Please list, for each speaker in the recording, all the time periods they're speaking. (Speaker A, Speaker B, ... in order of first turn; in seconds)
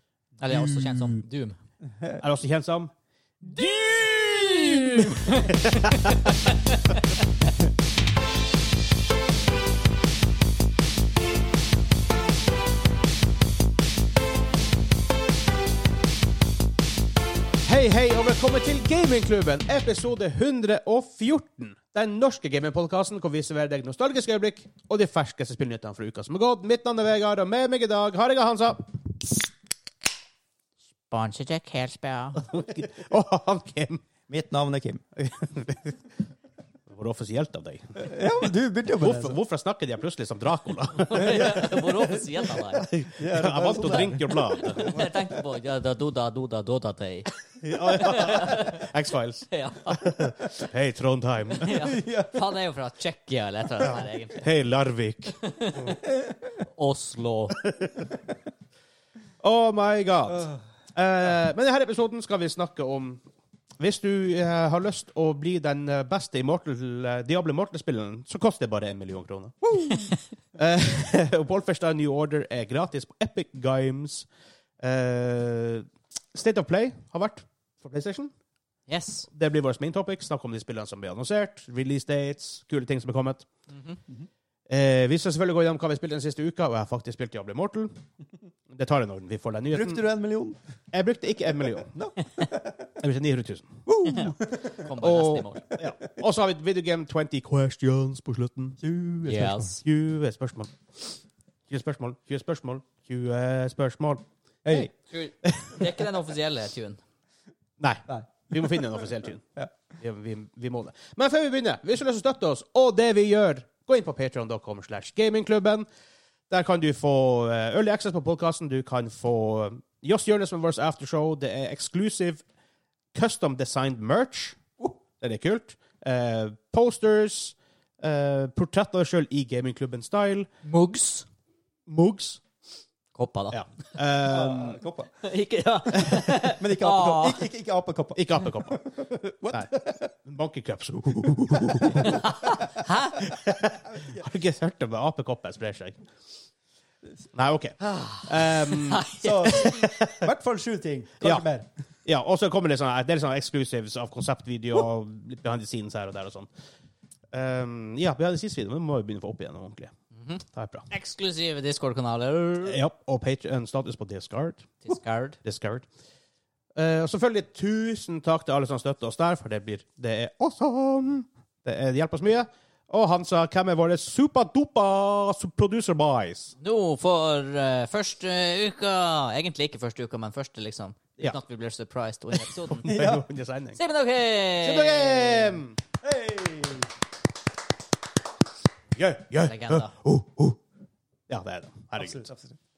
Speaker A: 0.4-1.6, 3.5-7.2, 31.1-32.4, 41.0-42.9, 43.8-47.3, 47.9-48.9, 49.5-50.2, 51.6-54.4, 55.4-56.0, 56.7-57.6, 78.9-79.3, 83.7-84.0, 94.0-95.7, 99.2-99.8, 105.1-107.0, 130.7-131.3, 133.2-133.6, 135.2-137.4, 141.9-143.3, 147.8-149.9, 160.9-162.8, 164.8-165.4, 176.6-182.9, 183.8-185.6, 189.5-189.9
Speaker B: 0.6-0.9, 1.9-2.2, 34.3-35.0, 38.0-39.4, 41.2-42.2, 43.1-44.6, 51.8-52.3, 56.1-56.4, 89.7-90.6, 92.0-92.9, 93.9-94.8, 98.8-99.8, 104.7-104.9, 108.1-109.0, 134.2-135.1, 136.3-140.0, 141.6-142.2, 149.1-151.7, 182.8-183.2, 186.0-186.9, 192.0-192.6
Speaker C: 2.2-2.9, 5.3-6.3, 17.6-29.3, 32.4-34.0, 35.2-36.0, 36.9-38.0, 39.0-41.6, 42.9-45.1, 47.6-51.9, 54.4-55.9, 57.6-58.0, 59.4-63.2, 63.8-74.3, 74.8-78.3, 79.3-83.5, 84.7-88.0, 88.7-90.0, 90.9-91.9, 93.0-93.8, 95.0-98.8, 99.8-101.2, 101.7-104.9, 105.4-105.9, 107.8-109.5, 110.0-115.9, 116.5-122.4, 123.1-124.6, 125.2-130.5, 131.9-132.4, 133.5-134.8, 138.2-138.8, 139.5-142.2, 143.2-146.0, 147.3-150.3, 152.1-156.5, 157.3-159.9, 160.5-160.9, 162.7-164.8, 165.4-165.9, 166.8-176.6, 182.7-183.8, 184.6-185.8, 189.0-190.6, 191.3-192.3